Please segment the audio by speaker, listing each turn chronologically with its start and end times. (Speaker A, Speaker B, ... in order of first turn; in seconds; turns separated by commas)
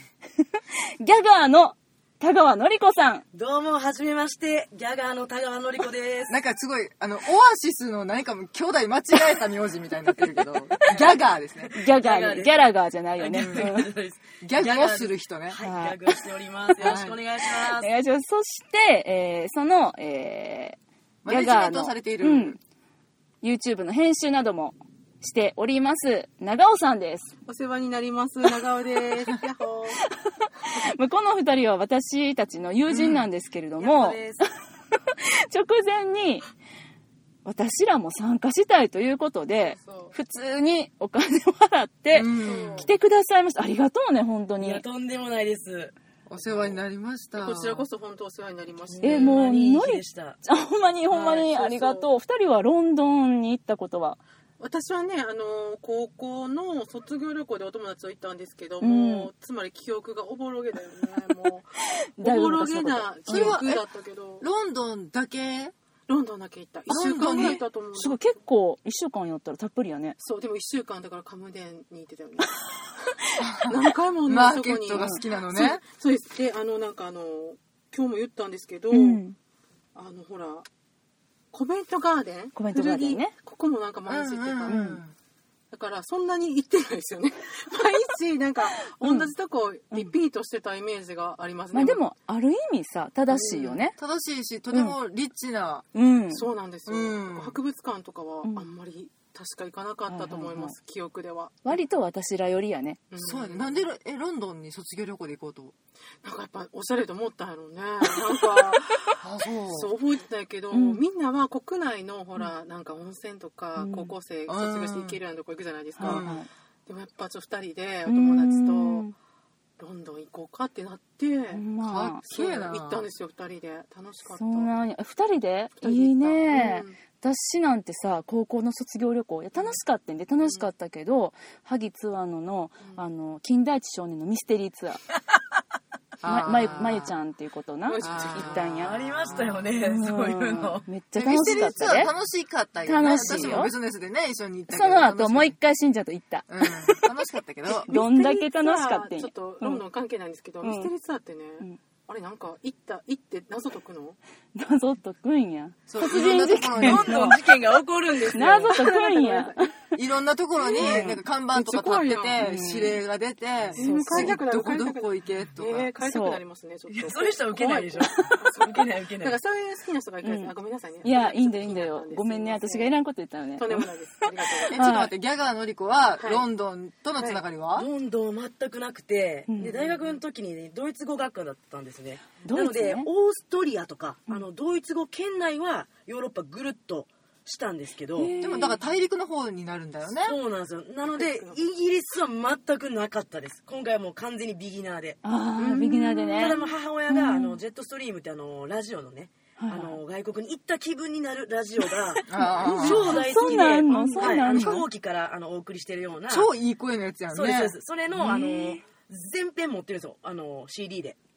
Speaker A: 0.4-3.2, Speaker B: 3.3-6.3, Speaker C: 6.3-11.7, Speaker A: 10.3-11.0, Speaker B: 11.7-12.7, Speaker A: 11.7-13.9, Speaker B: 13.2-17.9, Speaker C: 13.3-13.7, Speaker C: 14.4-15.6, Speaker A: 15.6-16.2, Speaker A: 16.7-17.0, Speaker C: 16.8-17.1, Speaker A: 17.5-22.6, Speaker C: 21.2-22.6, Speaker A: 23.4-27.3, Speaker D: 27.4-30.0, Speaker A: 30.4-34.5, Speaker C: 32.9-33.2, Speaker B: 33.8-34.5, Speaker A: 35.1-36.5, Speaker A: 37.4-44.8, Speaker D: 39.7-40.1, Speaker C: 42.1-42.9, Speaker D: 42.4-42.9, Speaker B: 44.6-45.9, Speaker C: 46.3-47.9, Speaker D: 47.4-49.4, Speaker B: 48.9-50.4, Speaker A: 49.0-54.2, Speaker D: 51.1-52.1, Speaker D: 54.6-64.5, Speaker A: 58.8-59.3, Speaker A: 62.2-63.6, Speaker C: 63.3-63.8, Speaker C: 64.4-65.7, Speaker D: 66.1-68.2, Speaker C: 66.9-67.6, Speaker A: 67.0-70.2, Speaker D: 70.2-72.6, Speaker C: 73.4-75.8, Speaker D: 73.6-79.2, Speaker A: 74.9-75.2, Speaker A: 78.9-79.3, Speaker D: 79.9-80.7, Speaker D: 81.5-84.8, Speaker A: 82.5-83.3, Speaker C: 84.1-85.1, Speaker A: 84.7-85.0, Speaker D: 85.7-92.0, Speaker A: 88.9-89.3, Speaker A: 91.7-94.0, Speaker C: 93.3-95.9, Speaker D: 93.4-93.8, Speaker A: 95.9-96.5, Speaker D: 96.3-101.8, Speaker C: 96.9-97.6, Speaker A: 100.1-100.7, Speaker A: 101.6-103.0, Speaker D: 103.1-103.8, Speaker C: 103.2-105.7, Speaker D: 106.2-116.3, Speaker C: 109.2-109.9, Speaker A: 110.7-111.0, Speaker A: 113.8-114.1, Speaker C: 114.5-115.2, Speaker A: 116.0-116.5, Speaker C: 116.0-116.4, Speaker D: 116.9-119.0, Speaker A: 118.0-119.1, Speaker D: 119.8-121.6, Speaker A: 121.5-122.2, Speaker C: 121.8-123.0, Speaker D: 122.3-124.7, Speaker A: 124.3-135.0, Speaker D: 125.8-127.0, Speaker C: 136.2-137.1, Speaker A: 136.2-139.1, Speaker D: 137.9-138.9, Speaker C: 138.0-138.6, Speaker B: 138.7-140.8, Speaker C: 139.3-139.6, Speaker A: 139.8-142.1, Speaker C: 141.1-145.6, Speaker A: 142.8-143.7, Speaker B: 143.0-143.7, Speaker A: 144.7-147.1, Speaker C: 146.5-147.9, Speaker D: 147.8-154.2, Speaker A: 147.9-149.8, Speaker A: 150.6-150.9, Speaker A: 154.5-157.4, Speaker C: 155.9-157.4, Speaker B: 156.8-158.9, Speaker D: 158.2-159.7, Speaker A: 158.3-160.0, Speaker C: 159.9-165.9, Speaker D: 160.7-162.4, Speaker A: 160.8-161.2, Speaker A: 162.4-163.0, Speaker D: 163.7-172.9, Speaker A: 163.8-164.4, Speaker A: 166.0-166.4, Speaker B: 166.9-169.4, Speaker A: 170.2-173.9, Speaker D: 173.6-174.8, Speaker A: 174.6-175.1, Speaker C: 174.7-177.9, Speaker D: 176.2-176.4, Speaker B: 177.7-188.3, Speaker A: 179.5-179.9, Speaker A: 182.4-183.1, Speaker A: 188.2-188.8, Speaker C: 188.4-190.3, Speaker B: 190.2-195.2, Speaker D: 191.1-191.6, Speaker A: 195.2-197.6, Speaker B: 195.7-206.5, Speaker A: 199.6-200.0, Speaker C: 202.3-203.2, Speaker A: 202.4-204.8, Speaker D: 202.6-204.7, Speaker C: 206.3-207.8, Speaker B: 207.3-211.2, Speaker A: 208.2-208.8